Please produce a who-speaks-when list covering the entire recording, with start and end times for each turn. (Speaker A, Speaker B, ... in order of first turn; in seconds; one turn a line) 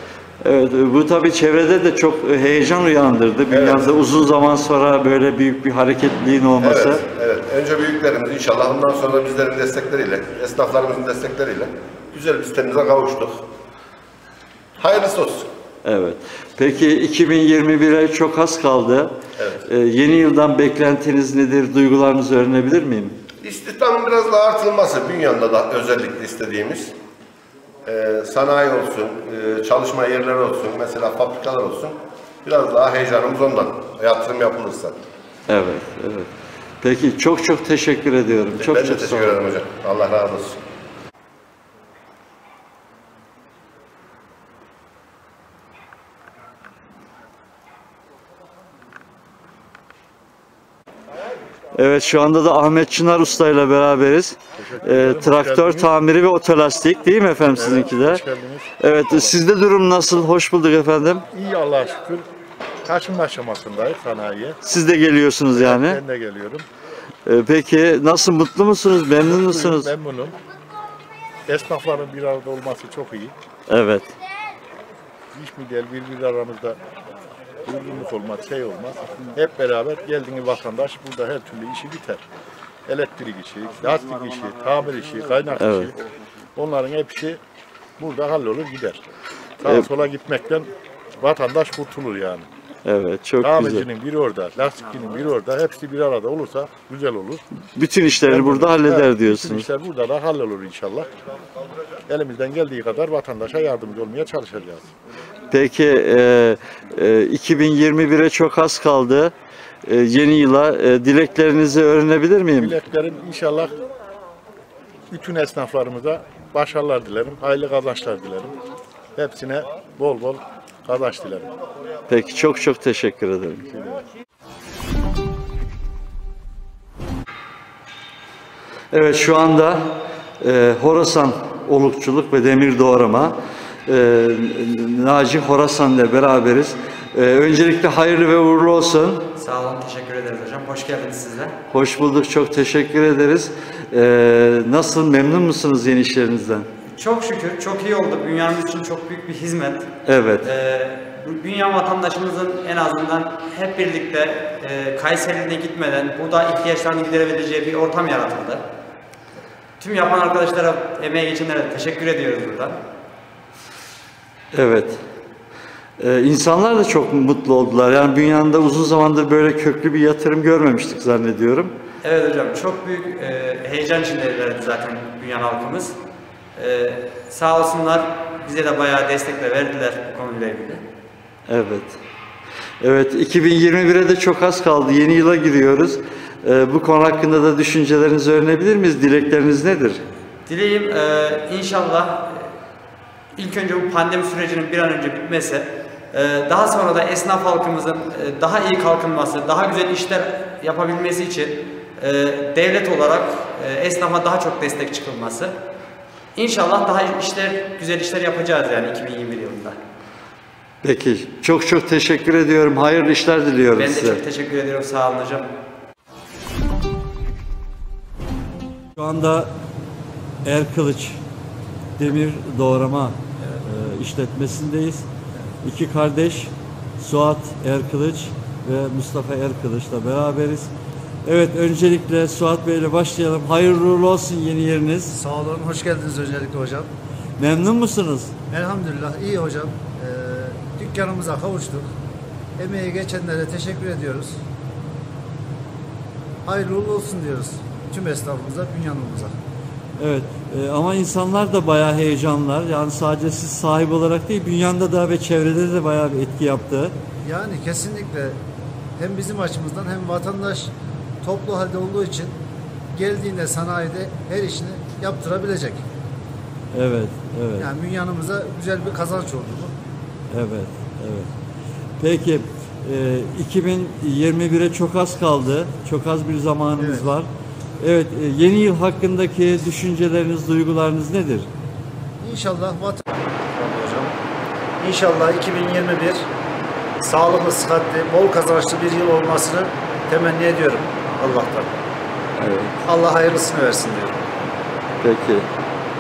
Speaker A: 0.4-7.0
Speaker B: 3.5-3.9
Speaker B: 6.6-13.4
Speaker B: 14.8-15.5
Speaker A: 15.8-23.2
Speaker B: 23.4-26.9
Speaker B: 27.9-35.0
Speaker A: 35.5-36.3
Speaker A: 36.8-39.5
Speaker B: 38.6-40.6
Speaker A: 51.7-58.2
Speaker C: 54.6-55.9
Speaker C: 57.4-59.4
Speaker A: 58.8-61.2
Speaker C: 61.3-62.2
Speaker C: 62.8-64.6
Speaker A: 64.6-66.0
Speaker C: 65.5-66.6
Speaker A: 67.2-69.9
Speaker C: 69.2-70.4
Speaker C: 71.5-73.3
Speaker A: 73.7-74.1
Speaker C: 75.3-76.8
Speaker C: 77.6-82.2
Speaker C: 82.8-86.0
Speaker A: 85.5-85.9
Speaker C: 86.5-87.4
Speaker C: 88.0-89.1
Speaker C: 89.6-90.7
Speaker A: 89.6-89.9
Speaker C: 91.2-92.5
Speaker A: 92.8-93.9
Speaker C: 93.4-97.4
Speaker A: 97.8-99.7
Speaker C: 98.2-101.1
Speaker C: 102.1-104.9
Speaker A: 105.5-109.3
Speaker A: 109.8-112.8
Speaker C: 112.5-113.8
Speaker C: 115.1-118.6
Speaker C: 119.2-121.5
Speaker A: 122.1-123.7
Speaker C: 123.7-124.0
Speaker A: 128.9-139.2
Speaker D: 139.3-141.6
Speaker A: 141.7-146.7
Speaker D: 146.8-158.7
Speaker A: 150.1-150.5
Speaker D: 159.8-162.8
Speaker A: 164.5-165.0
Speaker A: 166.0-171.8
Speaker D: 172.0-176.0
Speaker D: 176.5-180.8
Speaker A: 181.5-182.0
Speaker A: 182.8-190.0
Speaker D: 190.5-192.5
Speaker D: 193.3-205.6
Speaker D: 206.3-209.8
Speaker A: 210.8-214.2
Speaker D: 213.8-215.5
Speaker A: 219.0-219.5
Speaker A: 220.4-221.2
Speaker A: 222.0-225.1
Speaker A: 225.6-230.7
Speaker A: 231.2-235.2
Speaker E: 235.2-236.9
Speaker A: 237.4-238.3
Speaker E: 238.5-241.9
Speaker E: 242.6-244.4
Speaker E: 246.4-249.3
Speaker A: 250.0-256.9
Speaker E: 257.2-258.4
Speaker E: 259.0-260.7
Speaker E: 261.2-262.3
Speaker E: 262.9-265.8
Speaker A: 266.7-267.7
Speaker E: 267.6-269.7
Speaker A: 270.3-271.3
Speaker A: 272.0-281.5
Speaker E: 276.8-277.1
Speaker E: 282.2-284.1
Speaker E: 284.8-286.3
Speaker E: 287.0-291.7
Speaker A: 292.4-292.8
Speaker E: 292.9-294.2
Speaker A: 295.0-295.5